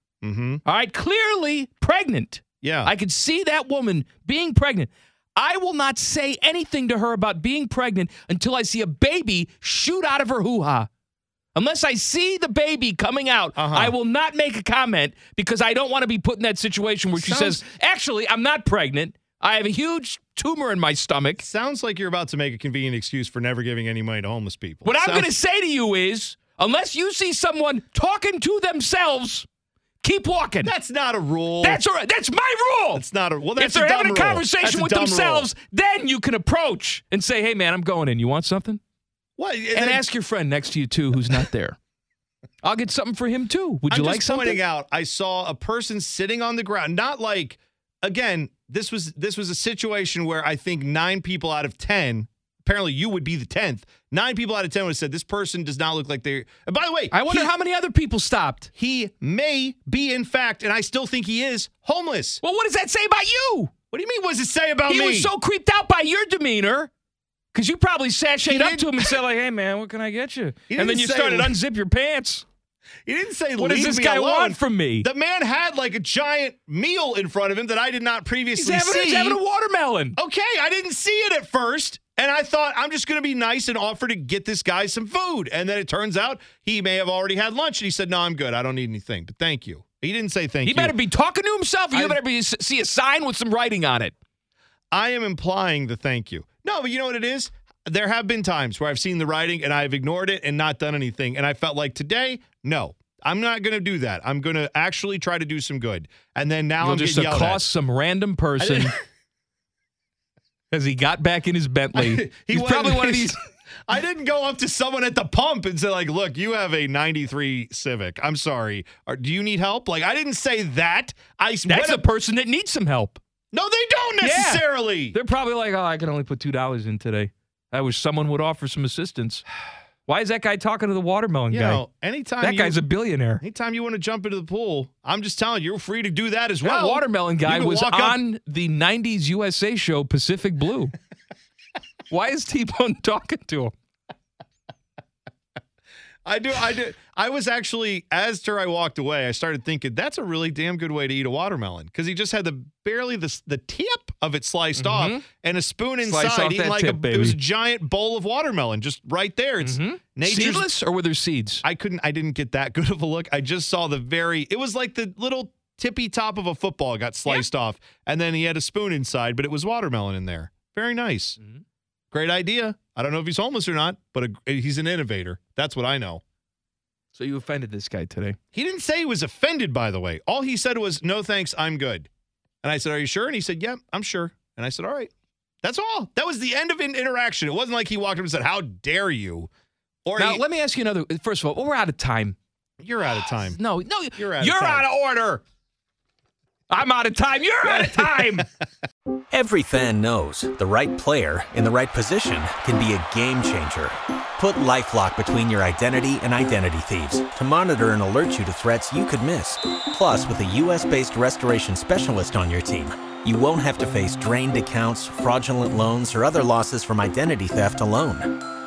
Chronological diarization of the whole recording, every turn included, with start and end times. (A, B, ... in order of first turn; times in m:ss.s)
0:00.2-0:00.6 A
0:00.6-0:10.9 B
0:02.6-0:02.9 A
0:11.5-0:21.4 B
0:13.6-0:13.9 A
0:17.2-0:17.6 A
0:21.4-0:25.3 A
0:24.8-0:29.5 B
0:30.0-0:30.7 B
0:30.6-0:31.8 A
0:31.6-0:33.0 B
0:32.9-0:35.5 A
0:33.5-0:38.8 B
0:39.4-0:40.0 A
0:39.7-0:41.8 B
0:42.6-0:44.6 B
0:43.9-0:57.5 A
0:57.1-0:58.7 B
0:58.7-1:02.4 A
1:02.4-1:03.7 B
1:03.9-1:05.3 A
1:04.9-1:06.9 B
1:07.5-1:12.4 B
1:08.4-1:09.2 A
1:10.7-1:11.6 A
1:13.0-1:19.4 A
1:13.6-1:15.1 B
1:18.6-1:20.2 B
1:20.2-1:31.0 A
1:30.6-1:34.1 B
1:31.9-1:32.2 A
1:34.9-1:47.6 A
1:46.8-1:49.0 B
1:48.6-1:49.0 A
1:50.7-1:53.4 B
1:51.9-2:02.0 A
2:01.6-2:03.2 B
2:03.5-2:05.2 A
2:04.2-2:09.4 B
2:10.0-2:11.8 B
2:11.5-2:12.8 A
2:12.4-2:13.4 B
2:13.4-2:18.2 A
2:16.6-2:20.9 B
2:22.1-2:23.7 B
2:26.2-2:40.7 A
2:34.8-2:35.2 B
2:36.0-2:37.4 B
2:39.6-2:41.6 B
2:41.6-2:51.4 A
2:52.1-2:56.2 A
2:57.1-2:58.4 B
2:58.5-3:02.1 A
3:02.6-3:05.1 A
3:05.6-3:09.5 A
3:10.0-3:10.4 A
3:10.2-3:12.4 B
3:12.8-3:13.6 A
3:13.1-3:15.4 B
3:14.1-3:14.9 A
3:16.7-3:18.5 B
3:17.6-3:18.4 A
3:19.3-3:38.4 C